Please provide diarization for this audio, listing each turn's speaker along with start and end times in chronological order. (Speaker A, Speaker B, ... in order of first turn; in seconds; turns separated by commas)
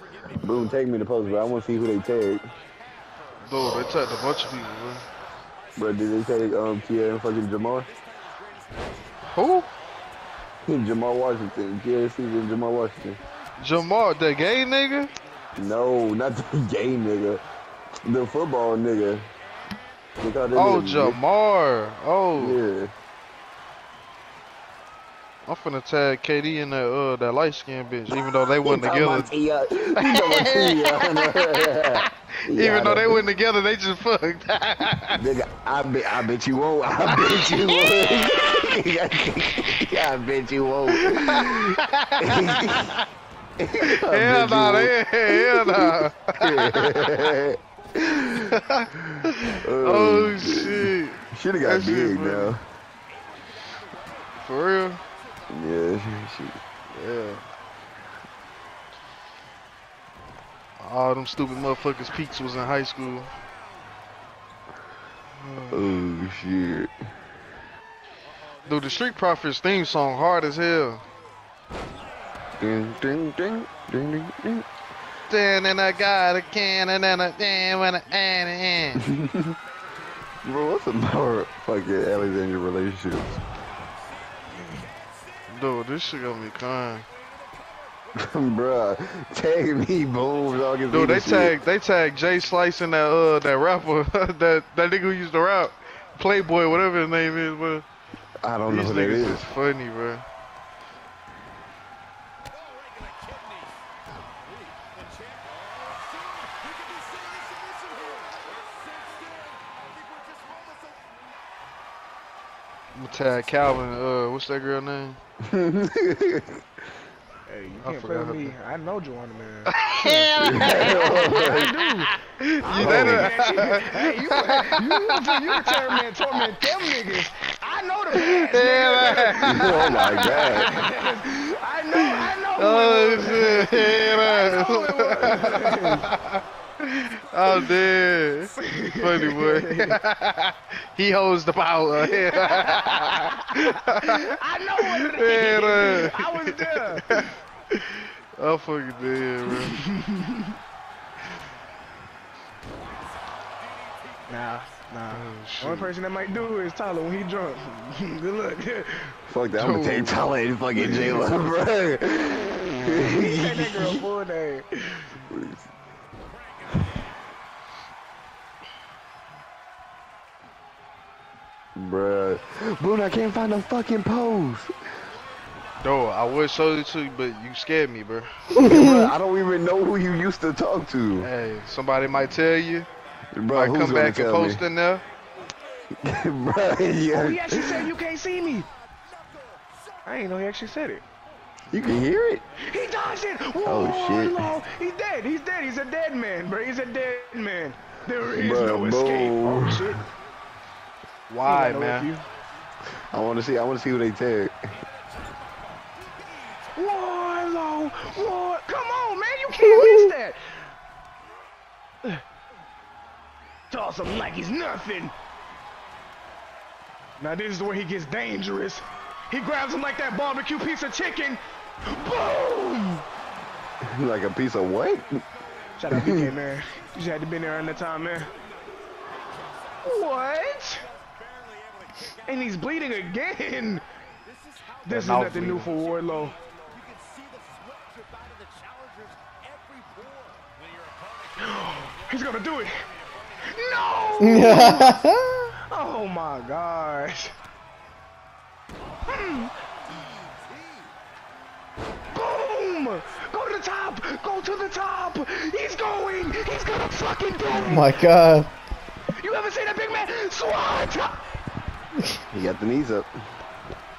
Speaker A: 0.3-2.4, Speaker B: 3.4-5.0, Speaker A: 5.8-7.9, Speaker B: 9.3-9.7, Speaker A: 10.6-13.2, Speaker B: 13.6-15.1, Speaker A: 15.6-17.4, Speaker A: 18.0-19.3, Speaker A: 20.2-21.2, Speaker B: 20.6-22.6, Speaker A: 22.4-22.9, Speaker B: 25.5-29.3, Speaker A: 28.6-33.2, Speaker B: 30.0-31.7, Speaker B: 32.4-35.2, Speaker A: 35.1-42.9, Speaker B: 37.3-37.7, Speaker B: 40.9-43.0, Speaker A: 43.6-52.6, Speaker B: 43.8-47.2, Speaker B: 48.3-52.6, Speaker B: 54.4-55.0, Speaker A: 55.5-56.6, Speaker B: 56.9-57.4, Speaker B: 60.8-63.3, Speaker B: 65.4-65.9, Speaker A: 65.7-66.9, Speaker B: 68.7-71.0, Speaker A: 72.6-74.7, Speaker B: 75.3-79.0, Speaker A: 79.0-79.6, Speaker A: 80.4-83.4, Speaker B: 85.5-87.1, Speaker A: 88.1-91.5, Speaker B: 90.9-97.8, Speaker A: 98.4-99.5, Speaker B: 98.7-100.2, Speaker B: 113.0-115.2, Speaker A: 115.4-116.6, Speaker C: 117.5-136.1, Speaker B: 117.8-118.5, Speaker B: 119.7-126.0, Speaker A: 120.4-121.8, Speaker A: 122.7-123.5, Speaker B: 128.1-130.9, Speaker A: 129.4-130.8, Speaker B: 131.9-149.8, Speaker C: 138.6-140.0, Speaker C: 142.1-147.3, Speaker C: 149.6-150.6, Speaker C: 154.3-159.2, Speaker B: 155.1-155.9, Speaker A: 159.3-164.0, Speaker B: 159.6-160.2, Speaker C: 160.8-161.3, Speaker C: 162.9-165.1, Speaker A: 165.3-165.7, Speaker A: 171.8-174.7, Speaker B: 175.8-178.3, Speaker D: 178.5-179.1, Speaker A: 178.6-181.3, Speaker B: 181.2-182.9, Speaker A: 183.3-184.6, Speaker B: 183.5-185.0, Speaker A: 185.9-187.9, Speaker C: 187.1-188.7, Speaker C: 190.1-191.0, Speaker A: 191.7-192.4, Speaker C: 192.6-200.0, Speaker A: 193.6-194.5, Speaker A: 198.3-200.0, Speaker B: 201.3-202.1, Speaker C: 201.5-202.3, Speaker A: 203.1-204.7, Speaker C: 206.8-210.5, Speaker D: 209.6-210.1, Speaker C: 213.7-215.1, Speaker C: 217.2-223.0, Speaker A: 223.8-225.2, Speaker C: 225.8-228.3, Speaker A: 225.9-226.3, Speaker C: 229.8-230.9, Speaker C: 232.2-233.8, Speaker C: 234.9-236.4, Speaker B: 234.9-235.7, Speaker C: 241.4-242.8, Speaker C: 243.4-245.0, Speaker D: 244.2-245.5, Speaker C: 245.7-247.3, Speaker C: 249.1-249.5, Speaker C: 252.1-258.0, Speaker D: 257.6-258.5, Speaker C: 259.2-261.2, Speaker A: 262.3-263.1